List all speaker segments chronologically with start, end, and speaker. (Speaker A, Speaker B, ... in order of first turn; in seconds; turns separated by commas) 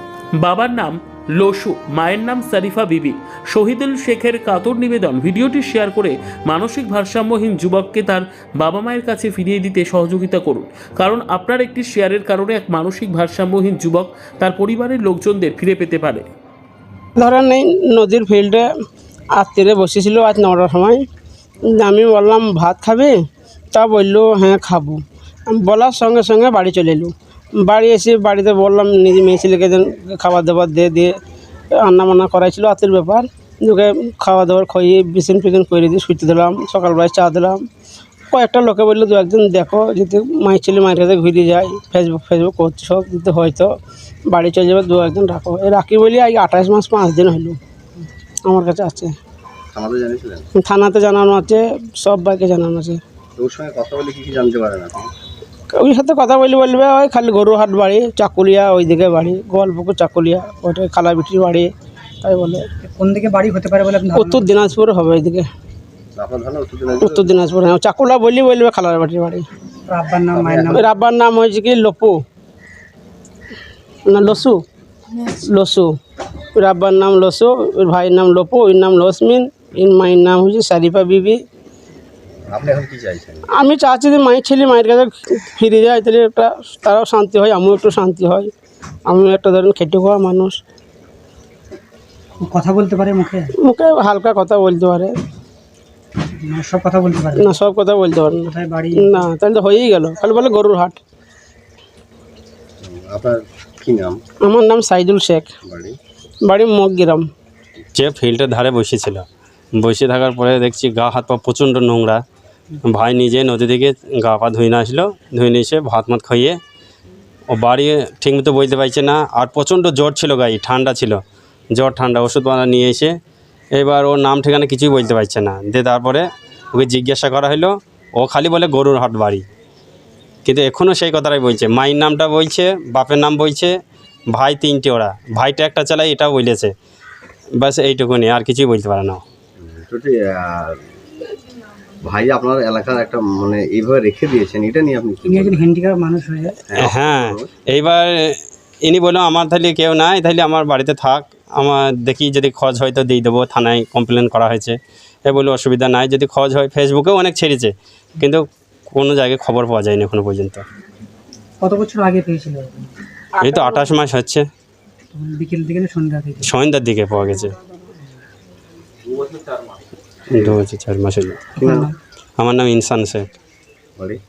Speaker A: 0.3-16.2, Speaker B: 17.2-18.7, Speaker B: 19.4-21.0, Speaker B: 21.7-23.2, Speaker B: 23.7-31.1, Speaker B: 31.7-37.6, Speaker B: 38.3-43.7, Speaker B: 44.3-47.6, Speaker B: 48.5-49.1, Speaker C: 49.7-50.5, Speaker B: 50.5-53.0, Speaker C: 53.4-55.1, Speaker B: 55.7-61.7, Speaker B: 62.2-62.6, Speaker D: 62.8-64.5, Speaker B: 64.1-65.5, Speaker C: 66.1-67.3, Speaker B: 67.0-69.4, Speaker D: 69.9-70.8, Speaker C: 70.3-70.8, Speaker B: 70.7-72.2, Speaker B: 74.1-74.6, Speaker B: 75.2-75.9, Speaker B: 76.5-81.4, Speaker C: 82.5-83.4, Speaker B: 83.5-88.5, Speaker B: 89.1-90.6, Speaker D: 92.4-93.5, Speaker B: 93.6-95.1, Speaker D: 96.4-97.5, Speaker B: 97.3-101.0, Speaker D: 98.5-99.2, Speaker C: 102.8-104.2, Speaker B: 104.4-105.5, Speaker C: 105.7-106.0, Speaker B: 106.4-107.3, Speaker E: 107.9-109.2, Speaker E: 109.8-112.2, Speaker E: 112.8-116.6, Speaker E: 117.5-121.2, Speaker E: 121.7-123.1, Speaker E: 123.8-129.4, Speaker E: 130.4-133.7, Speaker E: 134.3-136.7, Speaker E: 137.6-139.2, Speaker C: 139.6-140.8, Speaker C: 142.0-145.6, Speaker D: 145.2-146.6, Speaker C: 146.7-147.5, Speaker E: 146.7-160.6, Speaker D: 161.6-162.9, Speaker B: 163.4-163.9, Speaker E: 163.4-164.5, Speaker D: 165.1-166.5, Speaker E: 166.4-167.5, Speaker C: 169.1-170.6, Speaker E: 170.3-171.4, Speaker C: 171.6-171.9, Speaker D: 171.6-171.9, Speaker E: 172.4-173.3